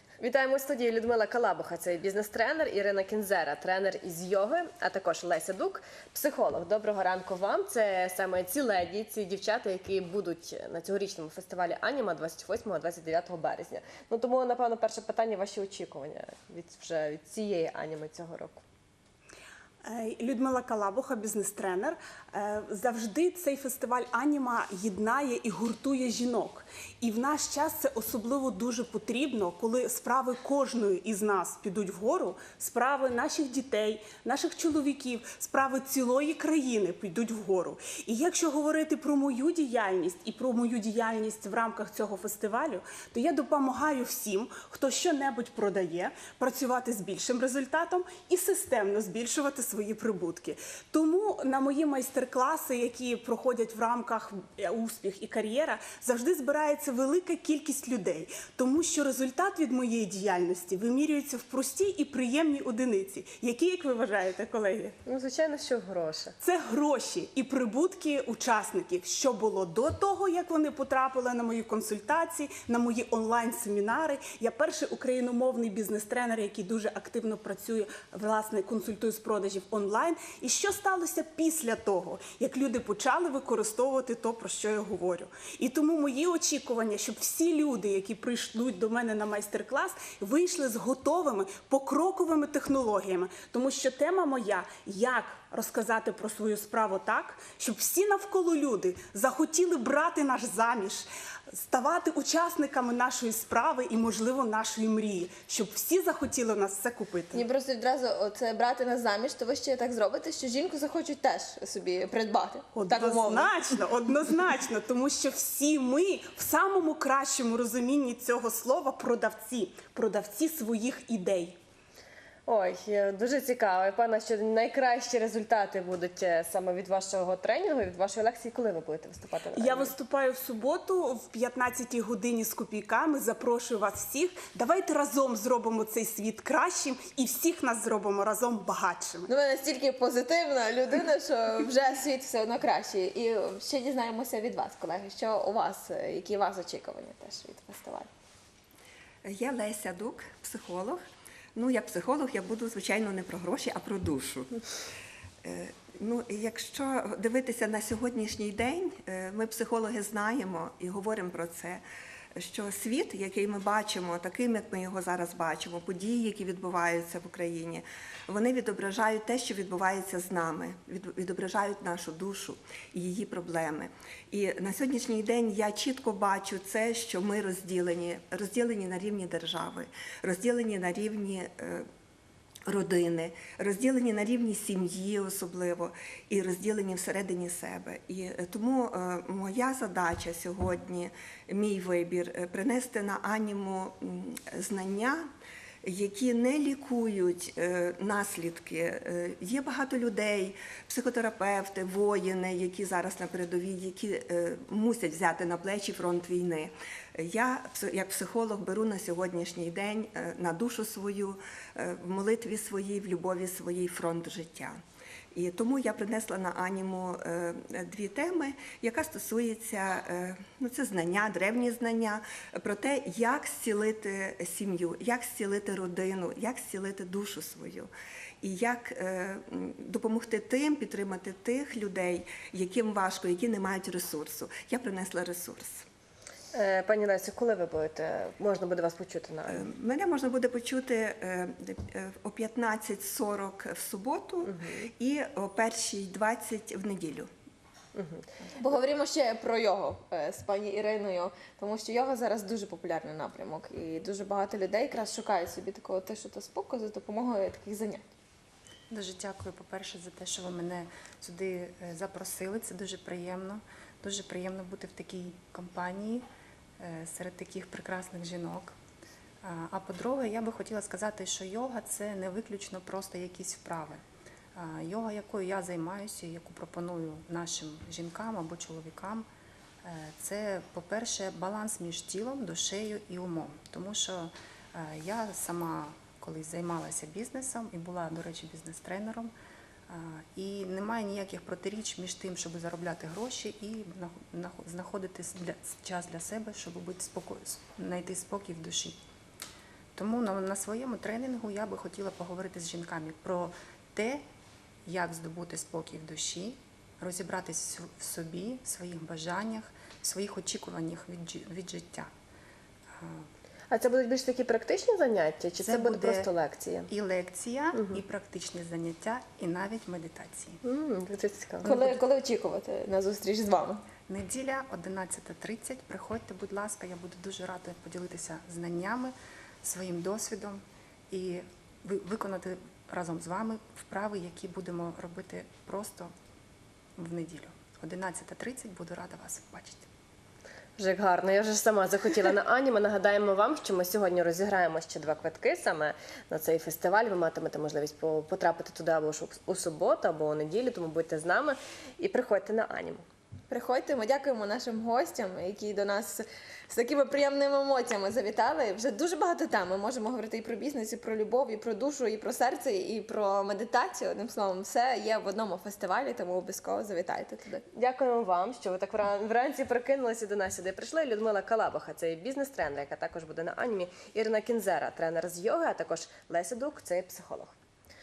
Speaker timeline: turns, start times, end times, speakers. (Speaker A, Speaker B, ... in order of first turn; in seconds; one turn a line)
Speaker A: 0.2-18.6
Speaker B: 19.8-65.0
Speaker A: 65.1-66.3
Speaker B: 66.4-107.4
Speaker C: 107.3-113.6
Speaker B: 112.8-121.6
Speaker A: 122.5-129.9
Speaker B: 129.5-139.3
Speaker C: 139.3-148.1
Speaker D: 149.2-151.0
Speaker D: 151.6-154.6
Speaker D: 155.4-161.8
Speaker D: 162.3-181.9
Speaker D: 182.7-195.3
Speaker D: 195.8-214.8
Speaker D: 215.3-227.9
Speaker D: 228.4-235.8
Speaker A: 236.5-239.7
Speaker D: 239.5-247.3
Speaker A: 244.4-244.9
Speaker A: 247.9-248.3
Speaker C: 248.6-258.1
Speaker E: 258.9-266.2
Speaker E: 266.8-268.8
Speaker E: 269.4-274.0
Speaker E: 274.6-279.3
Speaker E: 279.8-289.3
Speaker E: 289.9-299.0
Speaker E: 299.9-304.2
Speaker E: 304.9-312.1
Speaker E: 313.0-313.3
Speaker A: 313.7-316.9
Speaker E: 315.6-316.3
Speaker E: 316.9-320.6
Speaker A: 317.7-318.0
Speaker A: 320.6-321.7
Speaker C: 321.6-323.8
Speaker E: 321.6-322.0
Speaker E: 324.1-336.1
Speaker E: 337.0-339.9
Speaker A: 340.8-353.1
Speaker C: 353.5-367.6
Speaker A: 367.8-377.6